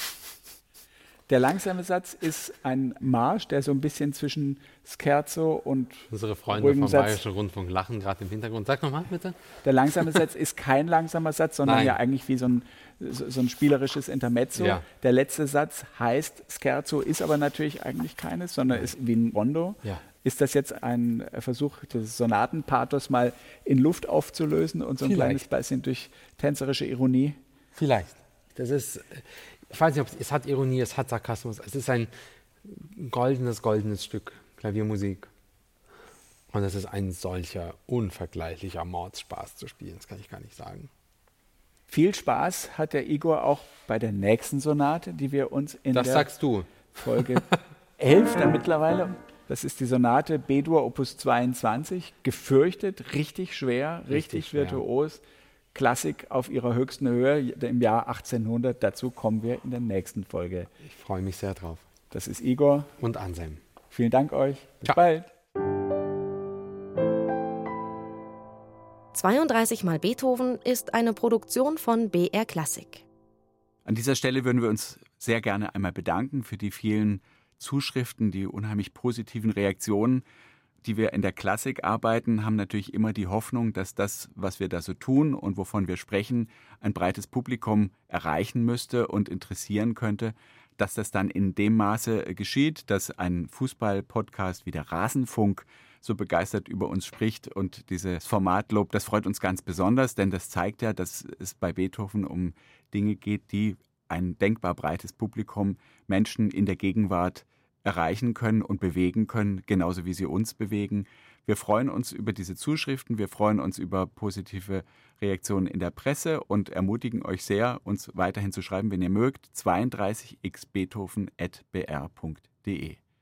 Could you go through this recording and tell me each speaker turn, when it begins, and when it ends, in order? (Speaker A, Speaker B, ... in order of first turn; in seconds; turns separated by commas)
Speaker A: 1.3-7.2, Speaker B: 6.1-9.4, Speaker A: 9.6-27.4, Speaker B: 11.6-12.0, Speaker B: 14.6-14.8, Speaker B: 25.0-25.4, Speaker B: 27.8-32.1, Speaker B: 32.6-35.3, Speaker B: 36.5-40.9, Speaker A: 41.9-46.3, Speaker B: 45.9-47.5, Speaker A: 46.9-47.5, Speaker A: 48.0-55.2, Speaker B: 54.1-54.8, Speaker A: 55.7-60.7, Speaker B: 60.8-61.9, Speaker A: 62.1-62.9, Speaker B: 63.0-63.6, Speaker A: 63.9-65.3, Speaker C: 69.1-73.0, Speaker D: 73.8-80.2, Speaker D: 80.8-123.0